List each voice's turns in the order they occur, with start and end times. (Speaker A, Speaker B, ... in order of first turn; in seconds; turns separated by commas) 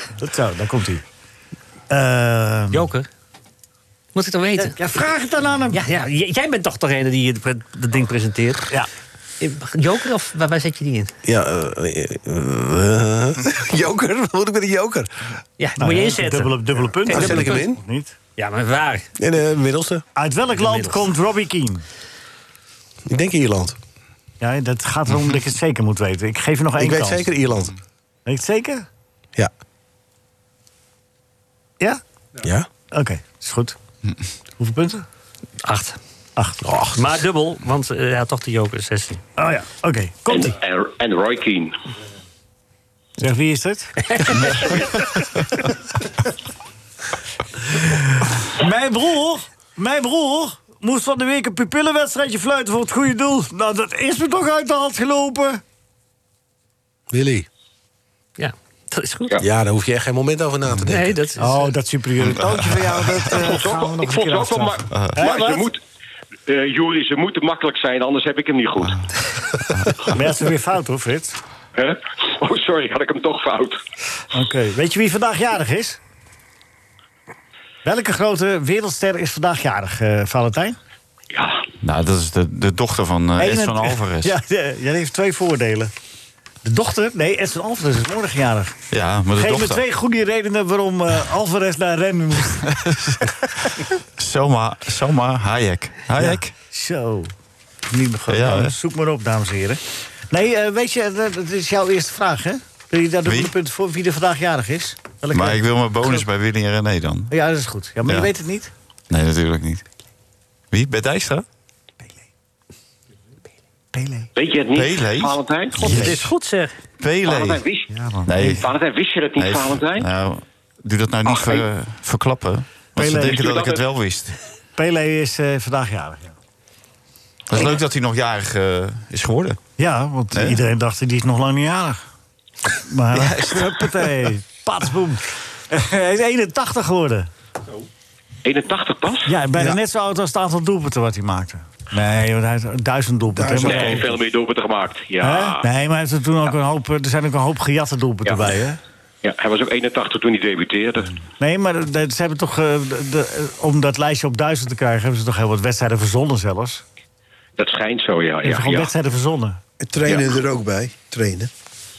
Speaker A: 0.2-1.0, Speaker A: 1.9-2.9, Speaker B: 2.7-3.1, Speaker B: 4.1-4.8, Speaker A: 4.5-5.8, Speaker B: 5.7-8.7, Speaker B: 9.4-11.1, Speaker C: 11.2-15.1, Speaker B: 15.6-17.6, Speaker A: 15.8-18.1, Speaker C: 17.1-17.8, Speaker B: 18.4-19.1, Speaker C: 19.2-20.0, Speaker A: 20.1-21.8, Speaker B: 20.6-21.0, Speaker C: 23.1-23.8, Speaker A: 24.4-27.3, Speaker C: 26.8-27.7, Speaker A: 28.2-28.9, Speaker C: 32.4-32.7, Speaker A: 32.9-33.8, Speaker A: 34.6-35.0, Speaker B: 35.6-36.0, Speaker C: 36.6-37.2, Speaker B: 37.0-39.2, Speaker A: 39.4-40.5, Speaker D: 40.3-41.7, Speaker A: 43.2-43.9, Speaker B: 44.0-45.4, Speaker A: 47.7-55.6, Speaker C: 57.1-57.5, Speaker B: 58.4-59.4, Speaker C: 59.4-61.2, Speaker B: 60.9-61.7, Speaker A: 61.4-65.7, Speaker E: 62.2-62.6, Speaker D: 63.3-65.8, Speaker E: 64.9-65.2, Speaker D: 66.5-69.0, Speaker E: 69.7-70.0, Speaker A: 70.0-71.4, Speaker D: 71.8-73.8, Speaker A: 74.3-76.0, Speaker A: 77.8-80.8, Speaker D: 81.3-81.6, Speaker E: 81.8-84.3, Speaker A: 83.4-85.9, Speaker A: 86.6-88.8, Speaker E: 88.9-89.8, Speaker A: 89.4-92.7, Speaker E: 92.6-96.5, Speaker A: 96.2-97.3, Speaker A: 97.9-105.6, Speaker E: 98.3-98.8, Speaker E: 103.2-103.5, Speaker E: 105.3-107.3, Speaker A: 107.3-108.7, Speaker E: 108.0-108.3, Speaker E: 109.1-109.8, Speaker E: 110.7-111.5, Speaker A: 113.9-114.3, Speaker D: 114.3-115.9, Speaker E: 114.7-116.3, Speaker B: 115.8-116.7, Speaker E: 117.0-117.6, Speaker D: 117.2-120.1, Speaker A: 117.9-118.6, Speaker E: 118.2-118.7, Speaker E: 119.4-124.4, Speaker D: 121.2-121.7, Speaker A: 123.0-123.5, Speaker D: 123.1-123.8, Speaker A: 124.8-126.3, Speaker E: 127.5-129.6, Speaker A: 129.8-132.0, Speaker E: 130.3-130.6, Speaker A: 132.8-137.3, Speaker E: 133.1-134.3, Speaker D: 138.4-139.3, Speaker A: 139.2-144.1, Speaker F: 143.3-144.2, Speaker D: 143.6-145.7, Speaker A: 145.2-148.8, Speaker D: 148.2-148.6, Speaker D: 149.2-151.1, Speaker A: 151.4-156.8, Speaker D: 157.6-158.9, Speaker A: 158.4-159.6, Speaker F: 159.8-161.5